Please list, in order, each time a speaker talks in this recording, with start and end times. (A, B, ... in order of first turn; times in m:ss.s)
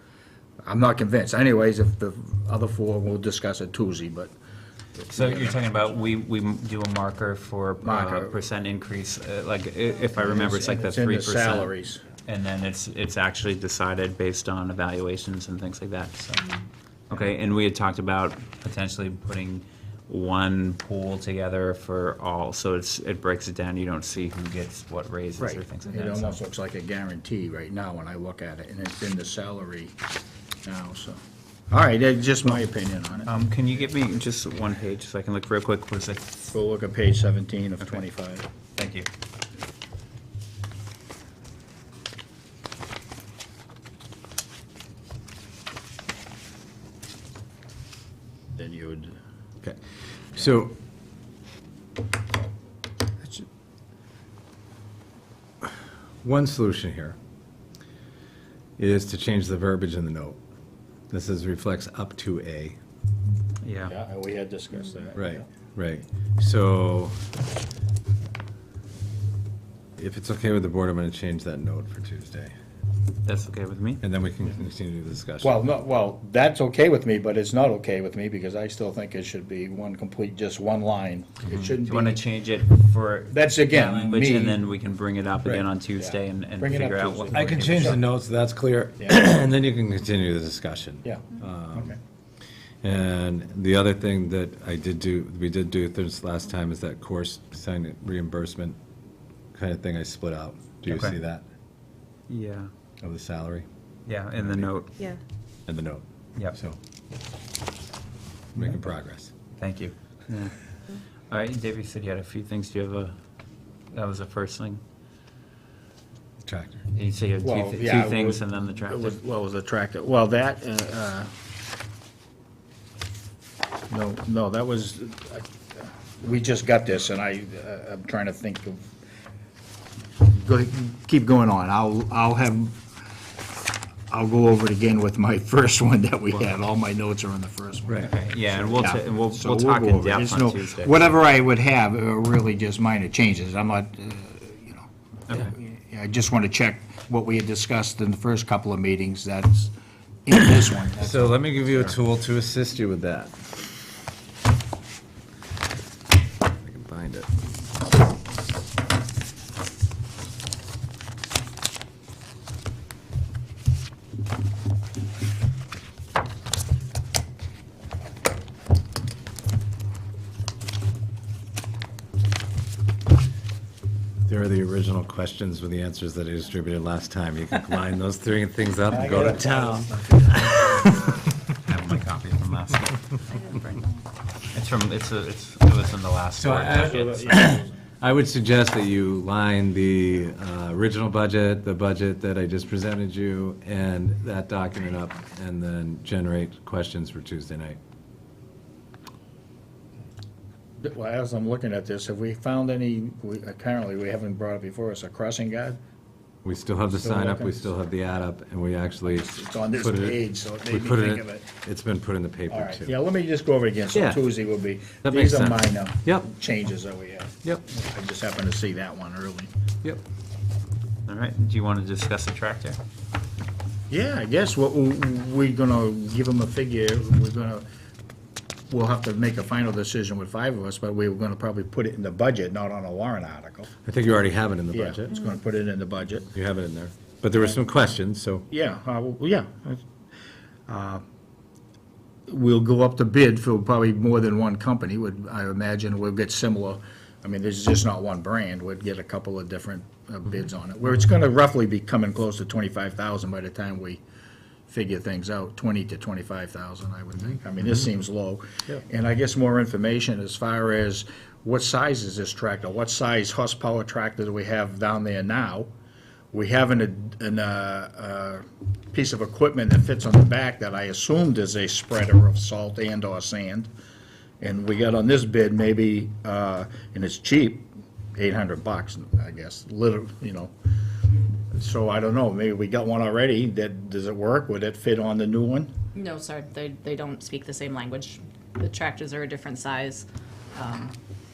0:00.6-0:04.3 A
0:05.0-0:05.8 A
0:05.1-0:11.7 B
0:07.8-0:08.4 A
0:10.1-0:12.0 A
0:12.2-0:16.6 B
0:17.1-0:26.4 B
0:25.4-0:30.0 A
0:30.6-0:33.3 A
0:33.2-0:36.5 B
0:36.5-0:38.5 A
0:38.8-0:39.1 B
0:48.6-0:49.2 A
0:50.3-0:50.7 C
0:55.6-0:57.2 C
0:58.8-1:00.4 C
1:01.1-1:02.8 C
1:03.6-1:03.9 B
1:03.9-1:05.5 A
1:05.1-1:07.2 C
1:10.0-1:12.5 C
1:13.2-1:14.0 B
1:14.0-1:15.6 C
1:15.4-1:22.2 A
1:21.7-1:28.0 B
1:23.3-1:24.6 A
1:26.0-1:28.0 A
1:27.3-1:31.9 C
1:31.0-1:32.0 A
1:32.8-1:38.8 C
1:39.5-1:41.4 C
1:40.8-1:41.2 B
1:42.3-1:42.7 B
1:43.0-1:43.7 C
1:44.0-1:45.0 B
1:44.4-1:44.7 C
1:45.7-1:46.8 C
1:48.5-1:49.3 C
1:49.6-1:50.5 B
1:51.3-1:53.2 B
1:53.9-1:54.8 B
1:56.4-1:56.8 C
1:56.9-1:59.2 B
1:57.4-2:01.3 A
2:03.9-2:08.9 A
2:10.3-2:12.8 A
2:14.1-2:29.7 A
2:18.0-2:21.2 B
2:30.2-2:32.0 A
2:31.0-2:33.6 C
2:36.6-2:37.3 C
2:54.3-3:01.1 C
2:58.9-3:01.1 A
3:01.6-3:03.8 B
3:04.5-3:07.4 B
3:06.3-3:17.8 C
3:06.7-3:07.7 A
3:20.8-3:25.8 A
3:26.4-3:32.9 C
3:26.9-3:27.7 A
3:29.0-3:31.5 A
3:32.5-3:39.5 A
3:33.9-3:34.3 C
3:35.0-3:36.3 C
3:41.1-3:42.8 B
3:43.9-3:47.6 A
3:48.7-3:53.7 A
3:53.8-3:55.2 C
3:54.7-3:56.3 A
3:56.3-3:58.5 C
3:58.5-3:59.8 A
4:00.7-4:01.0 A
4:02.3-4:14.0 A
4:14.7-4:25.7 A
4:26.3-4:33.7 A
4:34.4-4:40.5 A
4:41.5-4:45.7 A
4:45.9-4:50.9 D